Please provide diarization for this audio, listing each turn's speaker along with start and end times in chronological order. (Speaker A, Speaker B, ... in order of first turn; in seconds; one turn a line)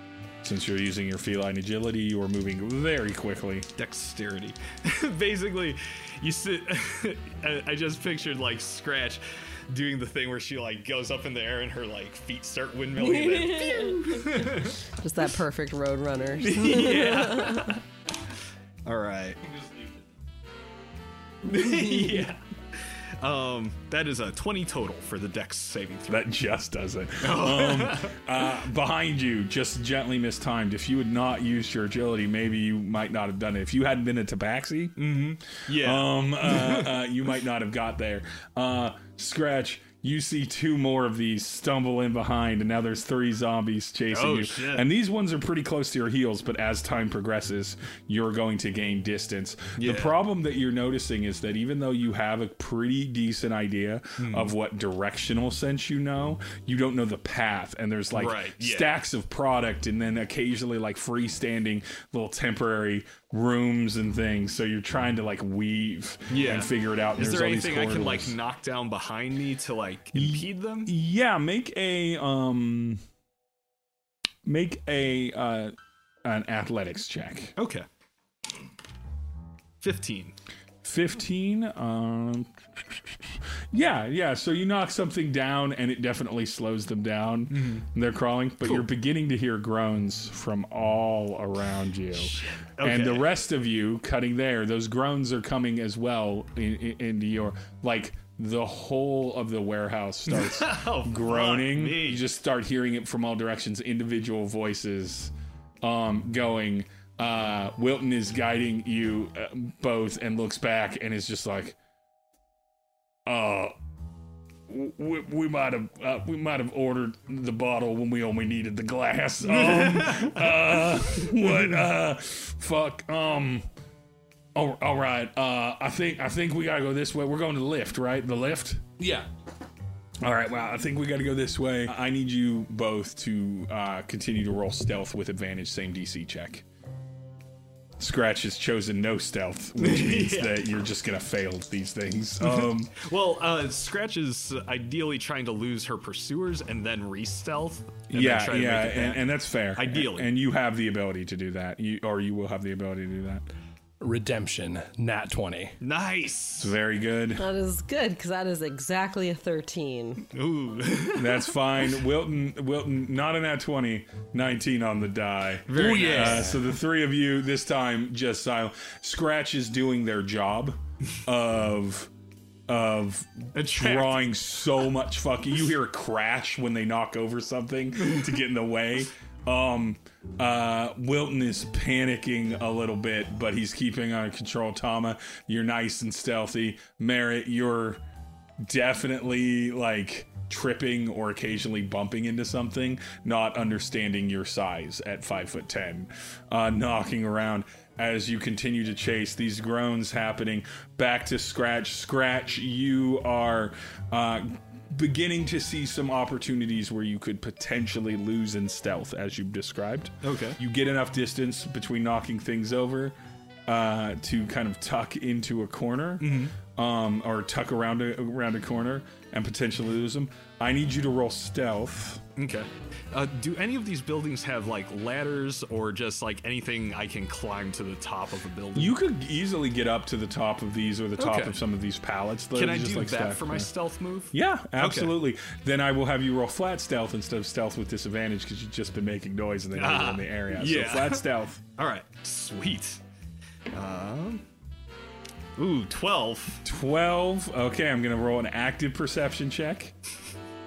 Speaker A: 0.4-3.7
Speaker B: 3.8-14.8
Speaker C: 13.0-17.8
Speaker B: 16.4-17.8
Speaker B: 18.9-19.5
Speaker B: 21.4-26.3
Speaker A: 26.1-68.4
Speaker B: 27.2-28.2
Speaker B: 35.0-37.0
Speaker B: 44.1-44.9
Speaker B: 49.8-50.2
Speaker B: 54.2-54.5
Speaker B: 58.1-58.9
Speaker B: 66.3-70.9
Speaker A: 70.2-73.0
Speaker A: 74.5-77.5
Speaker B: 77.6-77.9
Speaker B: 79.8-80.3
Speaker A: 80.8-111.8
Speaker B: 87.5-87.9
Speaker B: 92.1-93.3
Speaker B: 100.3-102.2
Speaker A: 113.2-113.7
Speaker A: 114.7-123.7
Speaker B: 119.6-120.4
Speaker A: 124.5-128.8
Speaker D: 129.0-129.3
Speaker A: 130.2-136.7
Speaker A: 138.0-142.9
Speaker B: 139.8-140.8
Speaker B: 142.4-150.3
Speaker A: 148.1-153.5
Speaker D: 154.0-155.8
Speaker B: 155.8-156.8
Speaker A: 156.6-157.4
Speaker C: 157.4-160.3
Speaker B: 160.3-161.5
Speaker A: 161.2-172.1
Speaker B: 165.7-166.6
Speaker D: 165.8-166.6
Speaker A: 172.7-188.0
Speaker B: 173.6-174.5
Speaker A: 188.6-213.2
Speaker B: 210.2-210.6
Speaker A: 213.7-222.2
Speaker B: 216.2-216.6
Speaker B: 222.4-228.9
Speaker A: 228.8-233.7
Speaker B: 231.2-231.6
Speaker B: 232.5-235.1
Speaker A: 234.3-241.6
Speaker B: 239.8-243.0
Speaker B: 243.7-244.4
Speaker B: 245.6-246.6
Speaker A: 246.6-249.9